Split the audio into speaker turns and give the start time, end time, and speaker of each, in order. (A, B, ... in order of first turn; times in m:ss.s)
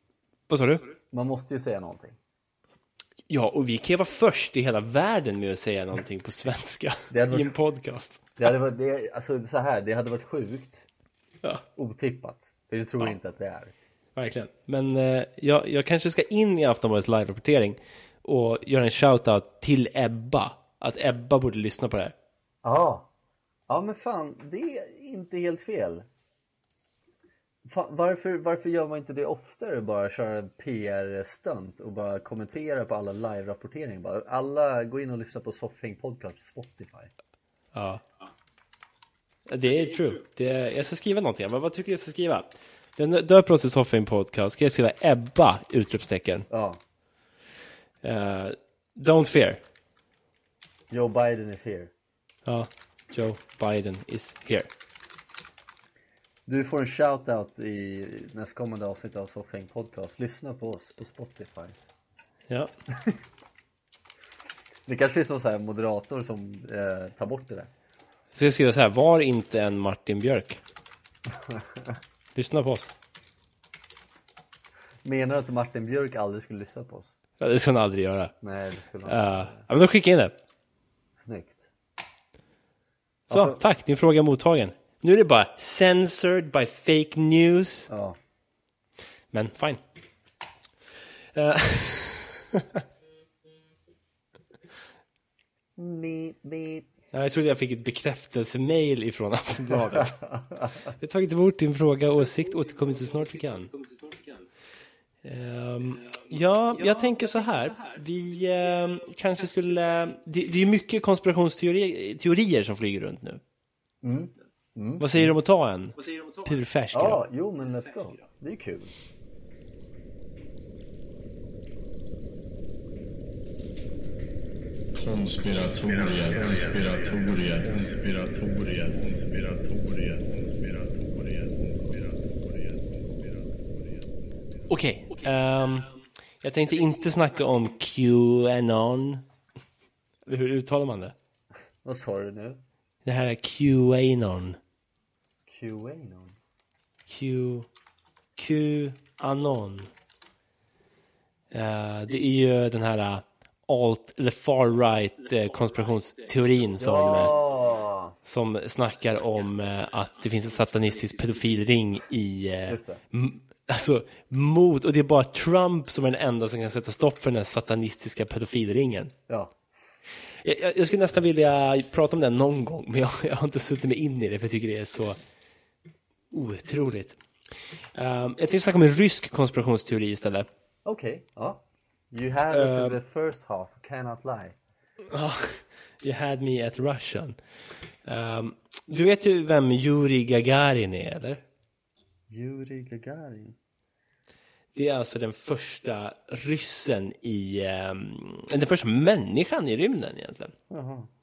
0:00.5-0:00.9 A
0:01.1-0:02.2 B
0:03.3-0:08.5 A
0:07.1-0:07.6 B
0:08.4-0:10.8 B
0:11.8-0:13.7 B
0:14.2-0:22.1 A
0:22.6-0:23.1 B
0:23.7-0:26.1 B
0:27.7-0:37.1 B
0:37.7-0:38.0 A
0:39.5-0:46.5 A
0:46.5-0:46.8 B
0:48.0-0:49.6 A
0:50.9-0:51.9 B
0:52.4-0:54.7 A
0:56.5-1:01.8 B
1:04.8-1:07.7 B
1:08.3-1:10.6 A
1:11.4-1:12.0 B
1:12.3-1:12.9 A
1:15.0-1:17.1 B
1:17.4-1:18.3 A
1:18.4-1:19.6 B
1:19.0-1:20.3 A
1:21.2-1:21.7 B
1:23.3-1:27.9 A
1:23.3-1:23.6 B
1:27.9-1:28.2 B
1:29.3-1:29.8 A
1:31.3-1:32.8 A
1:35.8-1:36.9 B
1:37.1-1:40.2 A
1:39.7-1:40.8 B
1:41.0-1:43.8 A
1:45.2-1:53.4 A
1:54.0-1:55.3 B
1:55.0-1:57.2 A
1:56.9-1:58.9 B
2:04.9-2:13.7 C
2:14.7-2:19.2 A
2:20.2-2:21.1 A
2:21.8-2:22.6 B
2:23.0-2:24.6 A
2:25.5-2:26.4 B
2:27.1-2:27.7 A
2:28.4-2:29.9 A
2:31.5-2:37.3 A
2:36.8-2:38.2 B
2:38.2-2:49.1 A
2:42.7-2:43.0 B
2:49.3-2:49.5 B
2:50.4-2:55.2 A
2:56.3-2:57.2 A
2:57.9-3:00.5 A
3:00.8-3:04.6 B
3:02.5-3:03.0 A
3:05.1-3:07.4 A
3:08.0-3:11.4 A
3:12.3-3:13.6 B
3:14.7-3:20.5 A
3:20.7-3:21.1 B